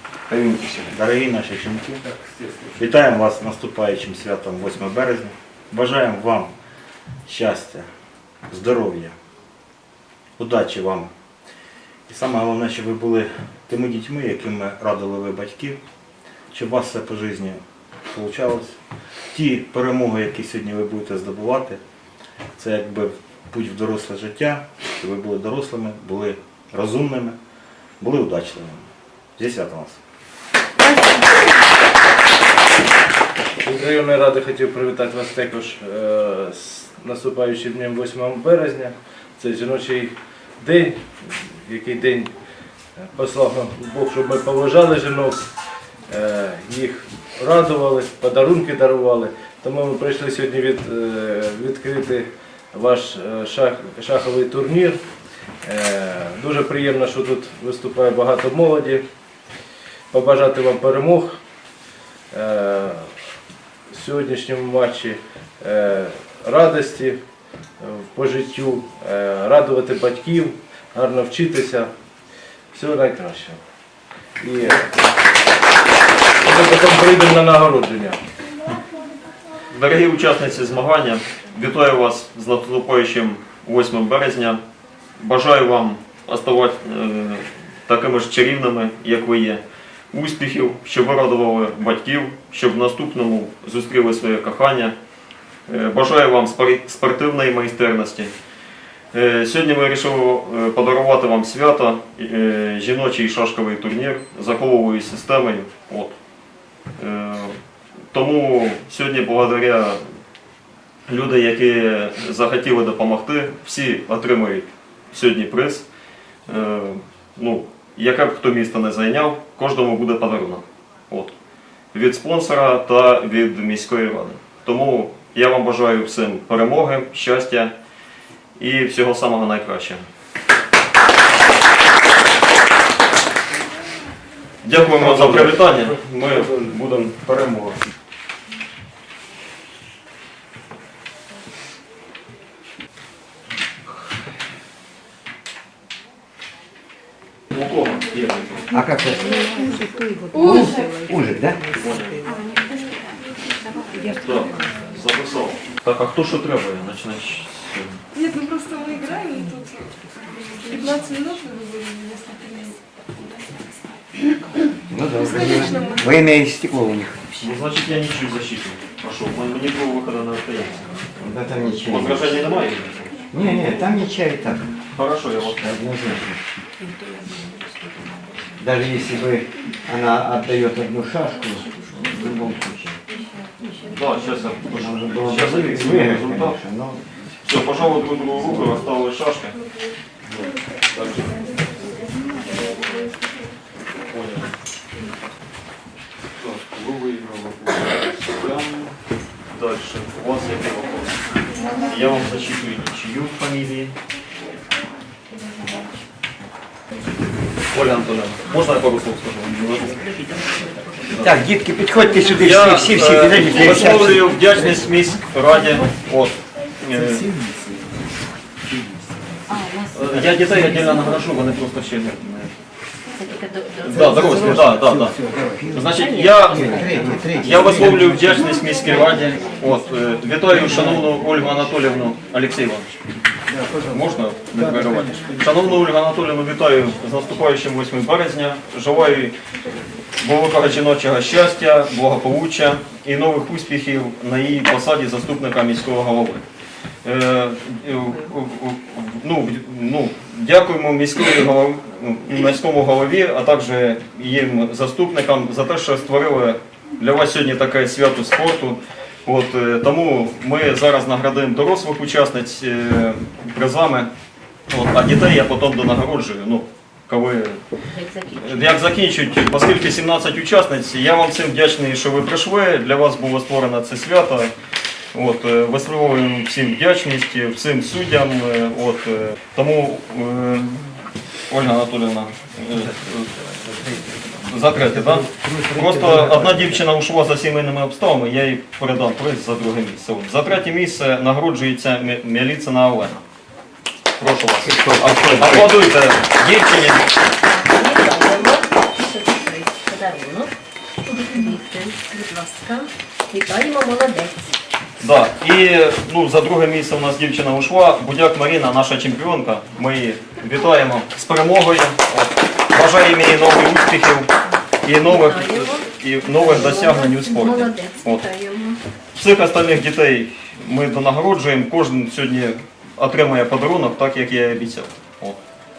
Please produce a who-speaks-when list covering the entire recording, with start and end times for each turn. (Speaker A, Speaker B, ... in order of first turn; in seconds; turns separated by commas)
Speaker A: 0.3-0.8, Speaker B: 0.9-2.0, Speaker B: 2.8-6.5, Speaker B: 7.3-7.9, Speaker B: 8.5-9.1, Speaker B: 10.4-11.1, Speaker B: 12.1-15.8, Speaker B: 16.5-18.8, Speaker B: 19.3-21.8, Speaker B: 22.6-27.4, Speaker B: 28.0-28.9, Speaker B: 29.4-30.0, Speaker C: 33.6-42.3, Speaker C: 43.0-45.4, Speaker C: 46.1-55.0, Speaker C: 55.6-59.0, Speaker C: 60.1-61.4, Speaker C: 62.3-63.1, Speaker C: 63.9-67.2, Speaker C: 67.8-71.9, Speaker C: 72.7-73.6, Speaker C: 74.4-75.0, Speaker C: 76.4-78.2, Speaker D: 79.7-84.6, Speaker D: 85.2-94.9, Speaker D: 95.7-98.3, Speaker D: 99.1-106.2, Speaker D: 107.0-107.6, Speaker D: 108.1-110.0, Speaker D: 111.1-115.8, Speaker D: 116.5-121.3, Speaker D: 121.9-127.7, Speaker D: 128.6-130.0, Speaker D: 134.6-137.5, Speaker B: 134.8-137.7, Speaker D: 147.5-148.6, Speaker A: 148.7-149.5, Speaker E: 150.3-150.6, Speaker A: 150.4-151.6, Speaker D: 151.7-152.2, Speaker D: 154.2-158.0, Speaker E: 158.2-159.9, Speaker E: 160.6-162.8, Speaker A: 164.9-167.2, Speaker E: 165.2-166.1, Speaker D: 167.4-171.0, Speaker A: 171.2-172.2, Speaker D: 171.8-173.2, Speaker A: 173.3-174.7, Speaker D: 174.9-175.8, Speaker A: 175.6-176.4, Speaker A: 178.6-183.0, Speaker D: 183.9-186.6, Speaker A: 184.8-187.0, Speaker D: 187.4-189.6, Speaker D: 190.9-191.4, Speaker D: 194.1-194.5, Speaker D: 196.4-198.9, Speaker D: 199.5-201.2, Speaker D: 201.8-203.9, Speaker D: 207.7-210.0, Speaker D: 211.0-211.4, Speaker A: 211.2-214.2, Speaker D: 212.2-217.3, Speaker A: 217.1-217.7, Speaker A: 218.7-218.9, Speaker D: 219.9-222.5, Speaker F: 223.2-224.1, Speaker D: 223.8-225.1, Speaker A: 224.0-225.9, Speaker D: 225.7-232.9, Speaker F: 225.9-227.7, Speaker A: 226.5-228.3, Speaker A: 233.5-233.8, Speaker D: 233.9-239.3, Speaker A: 234.6-235.0, Speaker D: 240.2-246.4, Speaker D: 247.0-264.1, Speaker D: 264.7-267.6, Speaker F: 267.9-268.7, Speaker D: 268.4-274.5, Speaker D: 275.1-281.0, Speaker D: 281.5-283.3, Speaker D: 284.4-293.2, Speaker A: 285.1-286.8, Speaker D: 294.2-297.1, Speaker A: 294.8-295.6, Speaker F: 297.4-300.5, Speaker F: 301.0-304.5, Speaker D: 305.0-314.3, Speaker D: 314.8-318.2, Speaker F: 315.0-318.8, Speaker D: 319.1-325.4